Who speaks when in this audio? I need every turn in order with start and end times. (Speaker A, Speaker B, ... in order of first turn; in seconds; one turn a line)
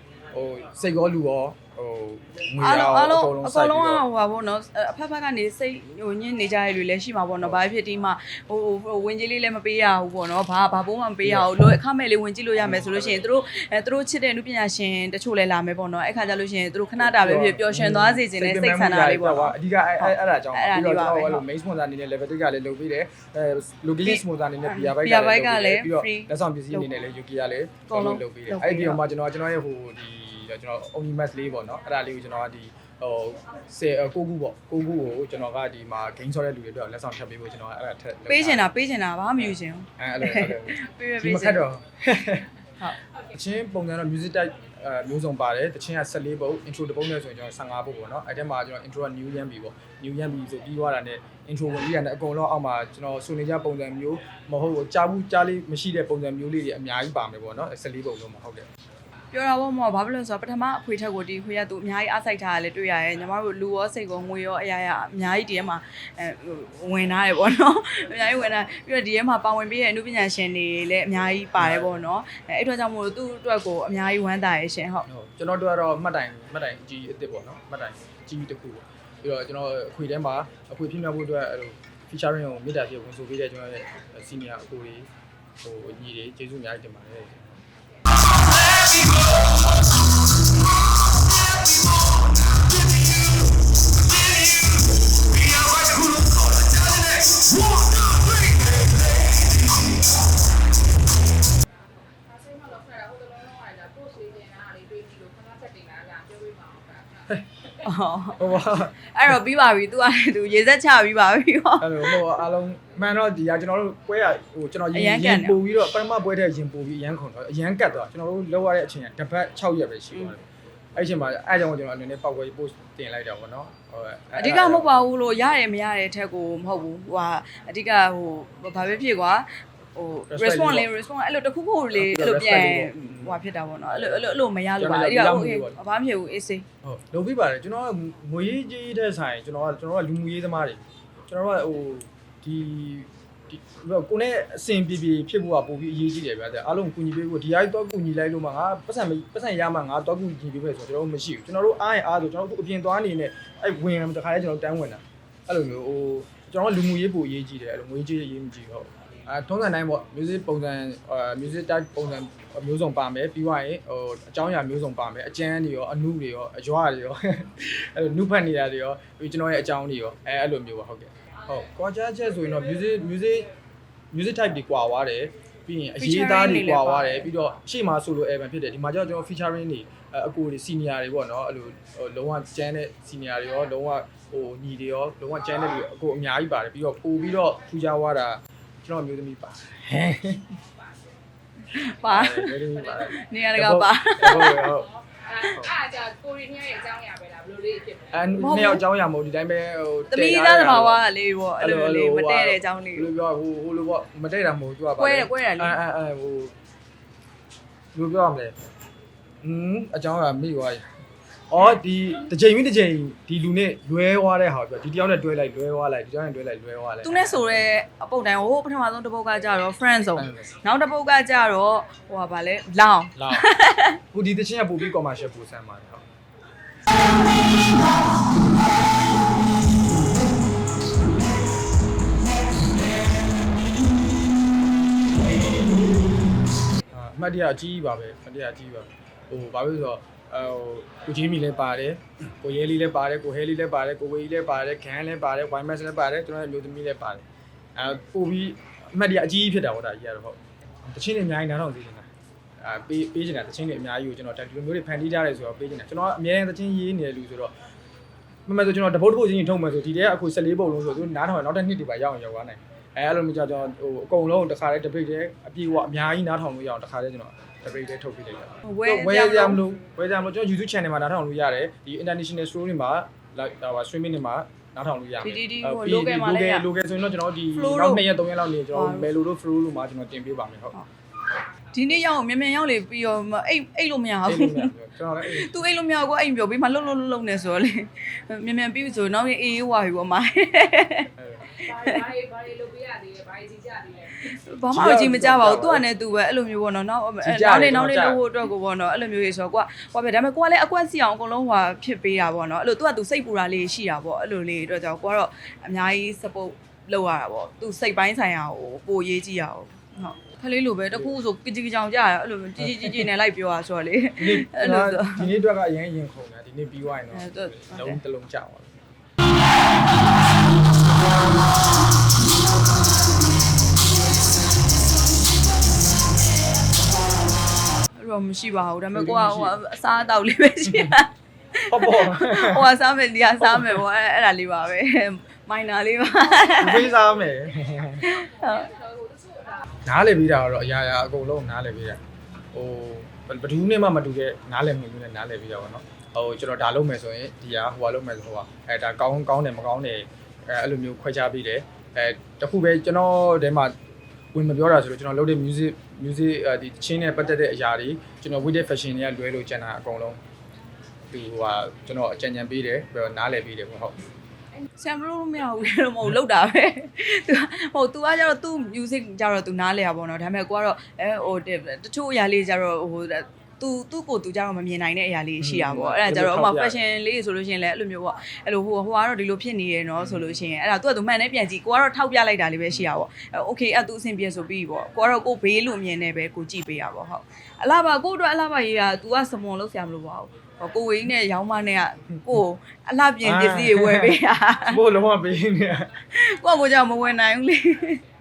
Speaker A: 0.3-4.0
Speaker B: 2.6-21.4
Speaker A: 11.2-11.5
Speaker A: 12.6-13.2
Speaker A: 17.0-38.7
Speaker B: 24.0-26.9
Speaker B: 27.9-29.0
Speaker B: 38.3-41.6
Speaker A: 39.4-42.5
Speaker A: 43.3-58.7
Speaker B: 59.3-75.1
Speaker A: 71.6-72.0
Speaker A: 75.1-85.1
Speaker A: 85.6-87.6
Speaker C: 102.3-107.0
Speaker B: 107.8-112.2
Speaker A: 108.4-109.1
Speaker A: 111.8-120.4
Speaker B: 114.9-115.6
Speaker A: 121.0-124.9
Speaker B: 124.4-136.7
Speaker A: 130.3-130.9
Speaker A: 131.9-135.8
Speaker A: 136.8-173.5
Speaker A: 174.1-190.6
Speaker B: 176.0-177.3
Speaker B: 191.7-194.8
Speaker A: 192.1-195.8
Speaker C: 195.8-198.1
Speaker A: 198.1-201.0
Speaker B: 198.4-198.8
Speaker B: 200.1-203.1
Speaker A: 201.6-206.5
Speaker B: 205.0-205.7
Speaker A: 207.9-208.6
Speaker A: 209.4-210.9
Speaker A: 211.5-217.7
Speaker B: 217.0-224.0
Speaker A: 220.2-220.5
Speaker A: 223.2-223.5
Speaker A: 224.1-226.1
Speaker A: 236.9-247.2
Speaker A: 247.8-252.1
Speaker A: 252.6-257.5
Speaker A: 258.5-280.8
Speaker B: 268.6-269.6
Speaker B: 275.2-276.7
Speaker B: 277.5-278.1
Speaker B: 278.7-279.1
Speaker B: 281.7-284.7
Speaker A: 284.3-285.5
Speaker B: 285.2-292.1
Speaker A: 291.2-291.5
Speaker C: 291.9-294.2
Speaker B: 294.2-315.3
Speaker A: 294.7-295.8
Speaker A: 297.2-298.2
Speaker A: 312.6-313.1
Speaker A: 314.2-318.8
Speaker B: 317.1-318.0
Speaker B: 328.0-336.9
Speaker A: 328.9-329.6
Speaker A: 331.7-332.7
Speaker A: 333.4-333.8
Speaker A: 336.6-338.1
Speaker B: 338.0-338.8
Speaker C: 339.0-339.5
Speaker A: 339.9-342.0
Speaker A: 342.5-353.7
Speaker A: 354.3-360.2
Speaker A: 361.1-364.0
Speaker B: 364.8-394.8
Speaker A: 375.4-376.8
Speaker A: 380.0-380.4
Speaker A: 393.2-396.0
Speaker B: 396.1-398.0